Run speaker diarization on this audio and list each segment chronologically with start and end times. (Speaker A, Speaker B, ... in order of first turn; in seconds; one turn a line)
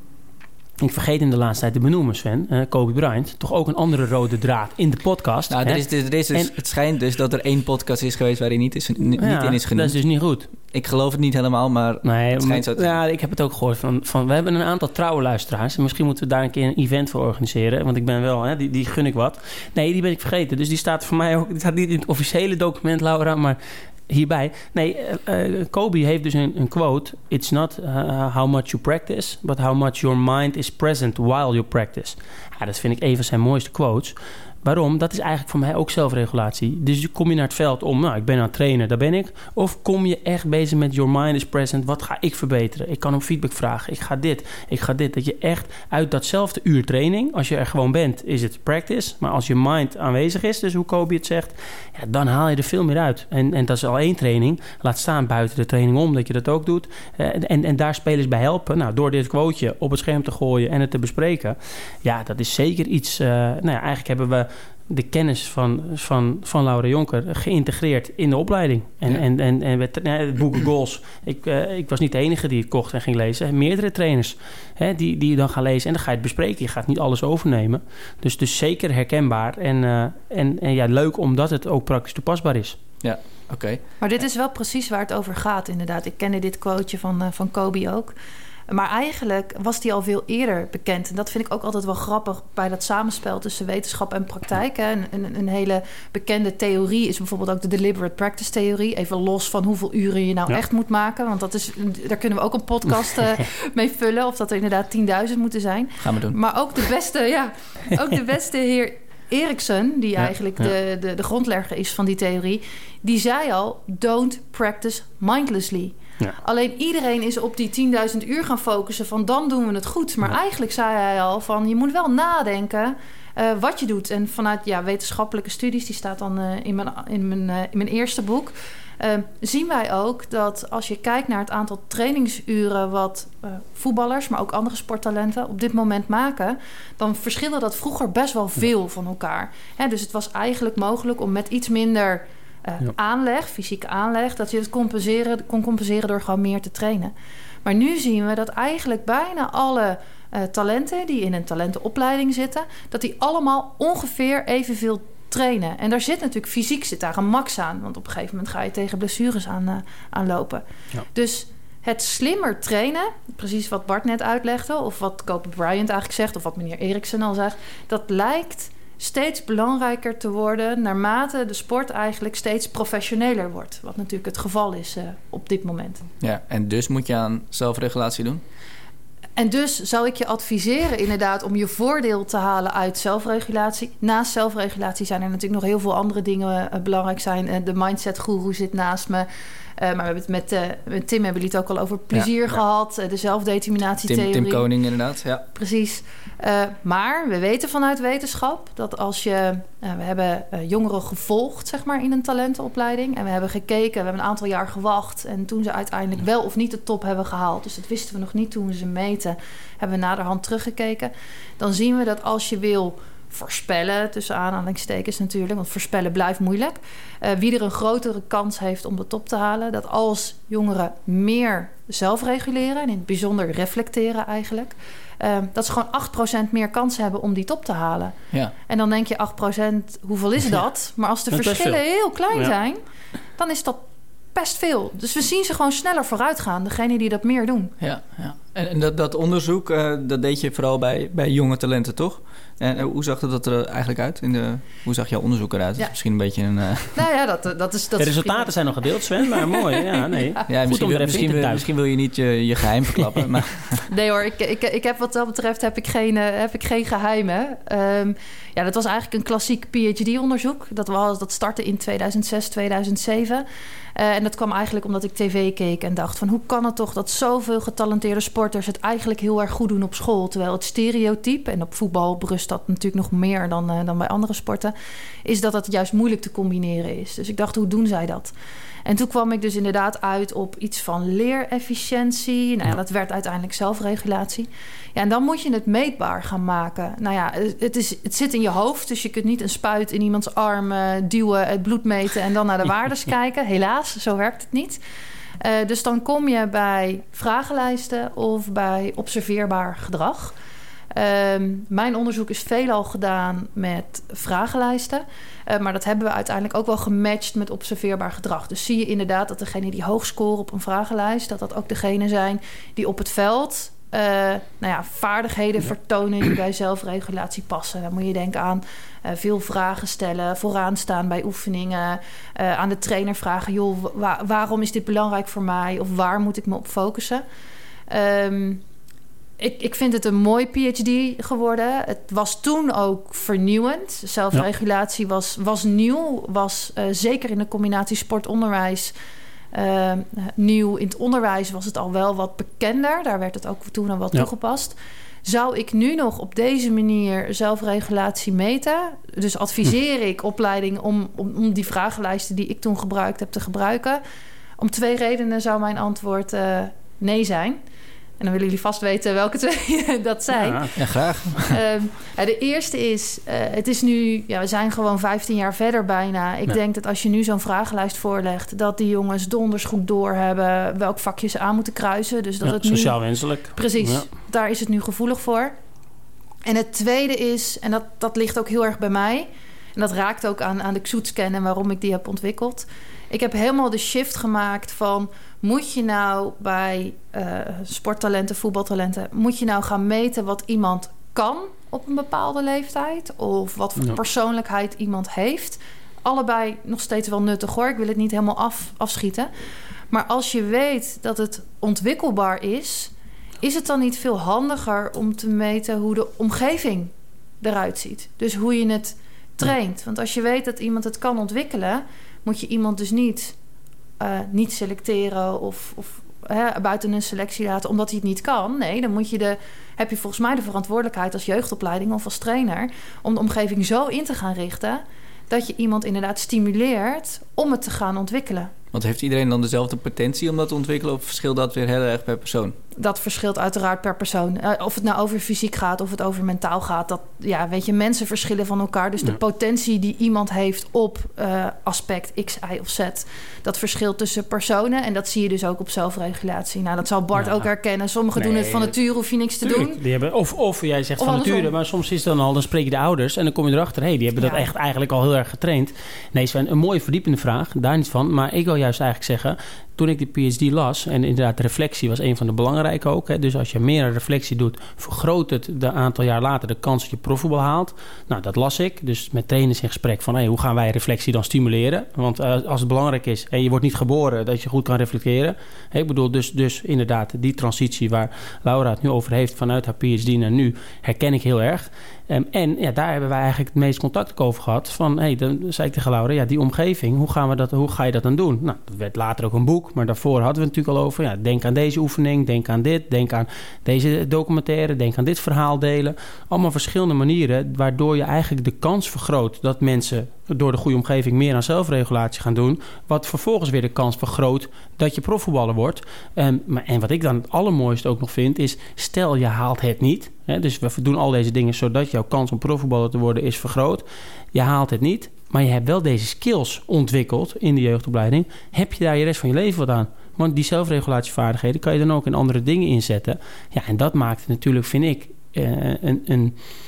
Speaker A: 0.8-6.5
Speaker B: 5.5-10.0
Speaker A: 9.2-10.5
Speaker B: 10.7-13.0
Speaker A: 12.0-82.8
Speaker B: 83.0-83.8
Speaker C: 84.0-88.1
Speaker C: 88.7-147.1
Speaker B: 106.0-106.4
Speaker C: 147.6-176.0
Speaker B: 176.2-178.4
Speaker C: 179.4-189.3
Speaker C: 189.8-194.7
Speaker B: 194.1-195.4
Speaker C: 195.5-228.2
Speaker C: 228.7-232.8
Speaker A: 231.3-231.8
Speaker C: 233.4-233.8
Speaker C: 234.3-237.7
Speaker B: 237.8-247.0
Speaker C: 246.9-248.5
Speaker A: 248.0-251.7
Speaker C: 249.3-249.7
Speaker B: 250.5-253.8
Speaker C: 253.9-263.4
Speaker C: 264.0-274.7
Speaker C: 275.2-278.3
Speaker C: 278.9-294.8
Speaker C: 295.4-300.3
Speaker C: 300.9-327.2
Speaker C: 327.9-328.6
Speaker C: 329.4-338.9
Speaker C: 339.5-354.0
Speaker C: 354.6-357.6
Speaker C: 358.2-373.0
Speaker A: 360.4-360.7
Speaker B: 360.8-361.6
Speaker A: 372.4-374.1
Speaker C: 373.5-375.5
Speaker C: 376.5-399.3
Speaker C: 399.9-413.3
Speaker C: 414.0-428.5
Speaker B: 428.7-432.6
Speaker C: 432.8-449.8
Speaker A: 447.2-447.4
Speaker A: 448.1-448.7
Speaker A: 449.4-526.4
Speaker C: 451.0-451.5
Speaker C: 454.2-454.5